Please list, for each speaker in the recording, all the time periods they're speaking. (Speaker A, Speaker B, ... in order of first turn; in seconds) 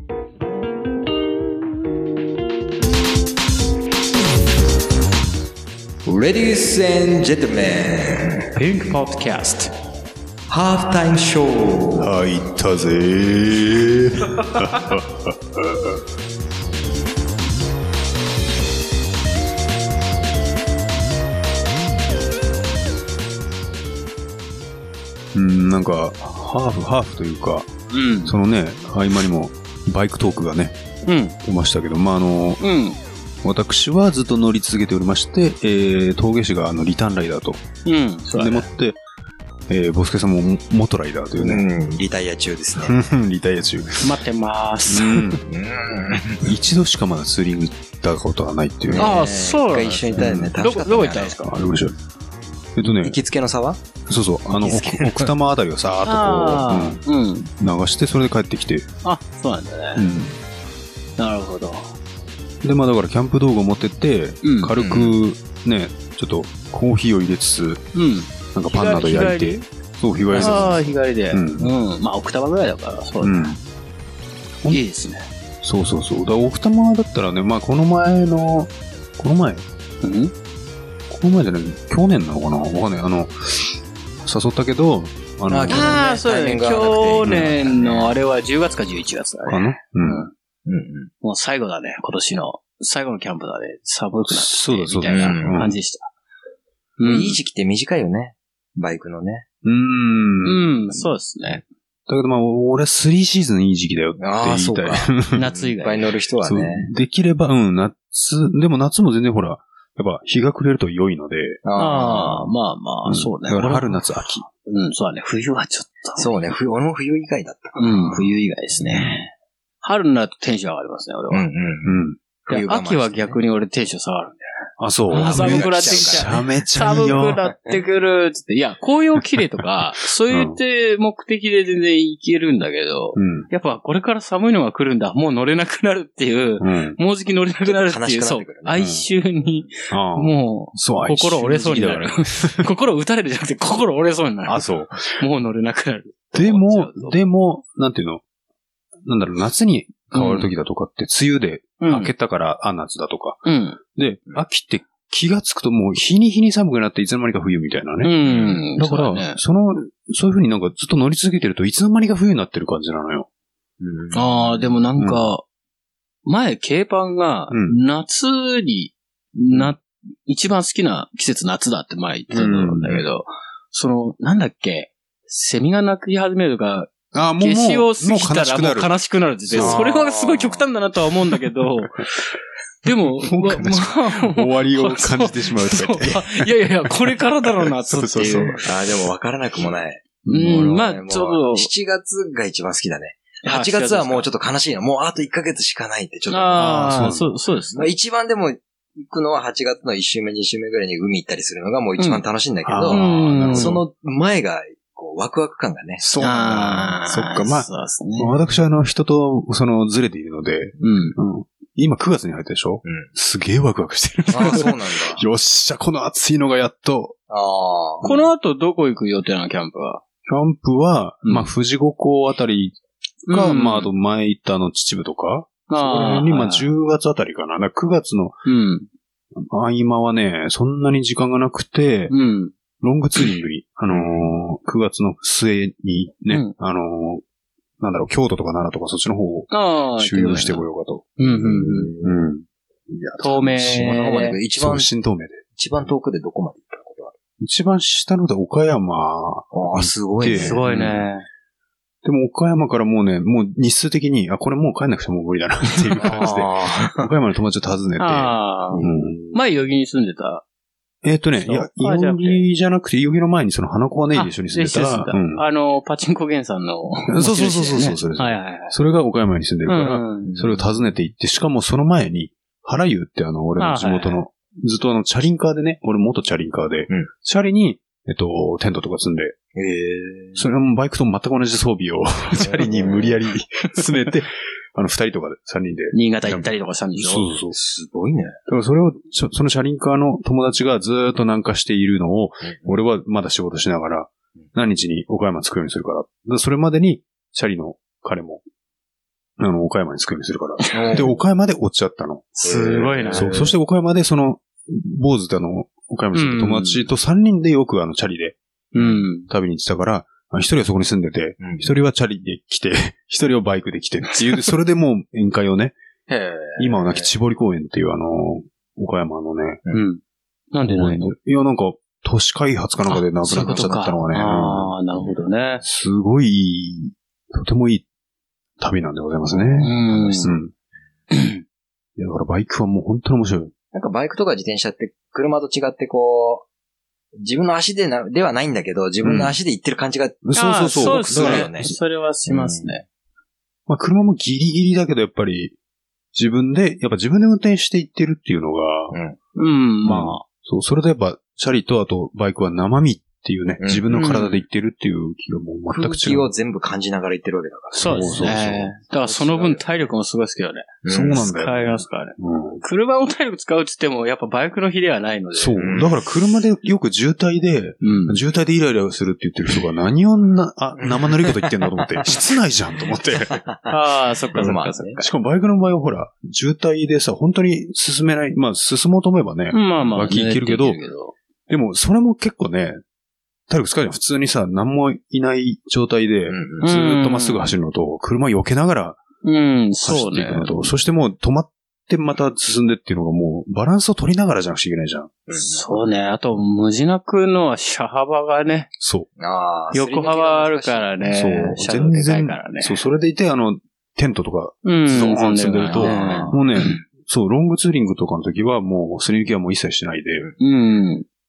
Speaker A: 6.0-8.5, 10.5-12.1, 41.4-43.0, 45.5-46.5, 48.9-51.4, 52.8-53.8, 54.5-55.3, 64.7-65.2, 70.3-70.6, 85.5-88.1, 90.7-91.1, 95.1-95.6, 97.0-99.5, 104.2-106.9, 111.6-112.5, 116.2-118.3, 121.3-123.4, 125.1-126.3, 137.6-138.8, 158.2-158.6, 163.8-164.7, 179.5-180.6, 188.6-197.1, 197.7-206.1, 212.8-213.1, 214.3-215.2, 217.3-218.1, 233.9-234.3, 241.4-242.2, 243.6-244.9, 245.6-247.2, 249.5-250.6, 255.9-257.1, 258.7-259.4, 270.2-270.8, 279.5-280.4, 282.3-283.2, 287.5-288.4, 292.4-292.7, 300.7-301.2, 302.4-303.4, 308.8-309.0, 311.4-311.7, 316.1-317.1, 323.3-323.7, 329.3-330.4, 333.7-336.5, 337.2-341.8, 342.3-342.8, 348.9-349.2, 353.6-354.0, 355.7-359.9, 360.8-361.2, 365.6-366.0, 370.8-372.2, 373.4-373.8, 374.3-374.9, 386.3-386.7, 395.3-395.9, 399.2-401.0, 405.7-406.4
Speaker B: 8.5-9.7, 27.9-28.3, 31.1-31.4, 32.6-33.0, 37.8-38.7, 44.0-45.4, 49.0-51.5, 56.0-57.5, 59.0-60.0, 61.2-61.9, 64.4-64.7, 67.9-69.6, 70.3-73.6, 74.7-75.2, 80.0-80.3, 85.7-90.3, 91.2-96.1, 97.0-97.4, 100.4-101.6, 105.3-106.1, 111.8-116.3, 117.8-119.3, 119.8-121.5, 122.5-124.4, 125.1-144.6, 145.2-147.2, 150.1-150.5, 151.8-152.1, 153.4-153.8, 158.0-159.4, 164.1-165.4, 166.2-182.0, 182.8-188.6, 190.3-191.7, 193.4-194.3, 196.3-197.9, 202.9-203.8, 206.2-208.3, 210.8-211.2, 218.0-220.0, 221.2-221.5, 223.2-223.9, 225.7-226.7, 228.4-228.9, 232.1-232.5, 239.5-240.6, 241.2-241.9, 243.2-244.4, 250.3-251.2, 258.0-260.4, 261.4-262.4, 264.1-268.7, 269.6-270.3, 273.6-274.2, 285.9-287.2, 300.7-301.0, 302.3-303.5, 306.1-306.9, 308.7-309.3, 319.7-320.0, 320.5-321.1, 322.9-325.6, 329.6-330.3, 331.1-331.4, 340.3-342.8, 349.4-350.2, 353.9-354.4, 357.8-365.6, 367.8-368.2, 373.7-375.1, 379.5-381.1, 386.6-387.5, 389.2-390.7, 395.3-398.7, 399.7-402.8, 404.6-406.8, 410.4-411.1
Speaker C: 12.0-16.0, 25.3-27.7, 28.2-30.8, 31.4-32.6, 33.4-37.6, 38.3-39.0, 39.7-41.7, 42.8-44.1, 44.9-45.4, 46.4-49.1, 50.1-50.5, 51.4-51.9, 52.8-53.1, 54.1-57.0, 57.6-58.9, 60.0-60.4, 62.6-67.8, 68.5-71.7, 73.2-73.6, 75.6-79.6, 81.1-85.9, 87.2-87.5, 89.5-90.3, 94.3-95.8, 99.6-100.7, 102.1-105.4, 106.4-111.6, 113.1-114.5, 121.8-122.2, 124.8-127.4, 130.3-130.6, 133.2-133.5, 136.6-137.0, 138.7-139.0, 139.9-142.7, 144.5-145.2, 146.3-148.2, 149.0-163.3, 165.0-165.2, 167.5-167.8, 172.3-173.0, 177.1-178.9, 179.5-179.8, 183.2-188.7, 190.3-190.6, 196.5-197.3, 202.7-203.8, 206.0-217.1, 220.2-222.8, 223.3-228.4, 229.3-232.1, 232.8-237.2, 237.8-241.2, 242.0-244.0, 244.5-245.4, 247.4-251.0, 252.0-259.2, 261.0-265.4, 267.1-279.4, 280.4-287.5, 288.5-298.4, 299.4-302.4, 303.1-308.4, 309.3-315.8, 316.6-319.6, 320.7-324.7, 325.6-327.9, 328.6-330.5, 332.0-333.5, 339.0-339.3, 340.2-341.7, 343.7-345.5, 346.1-348.9, 349.8-356.3, 357.8-358.7, 360.9-362.6, 365.3-373.4, 374.4-380.8, 381.5-382.8, 383.5-389.0, 389.8-395.1, 398.8-399.1, 401.1-410.3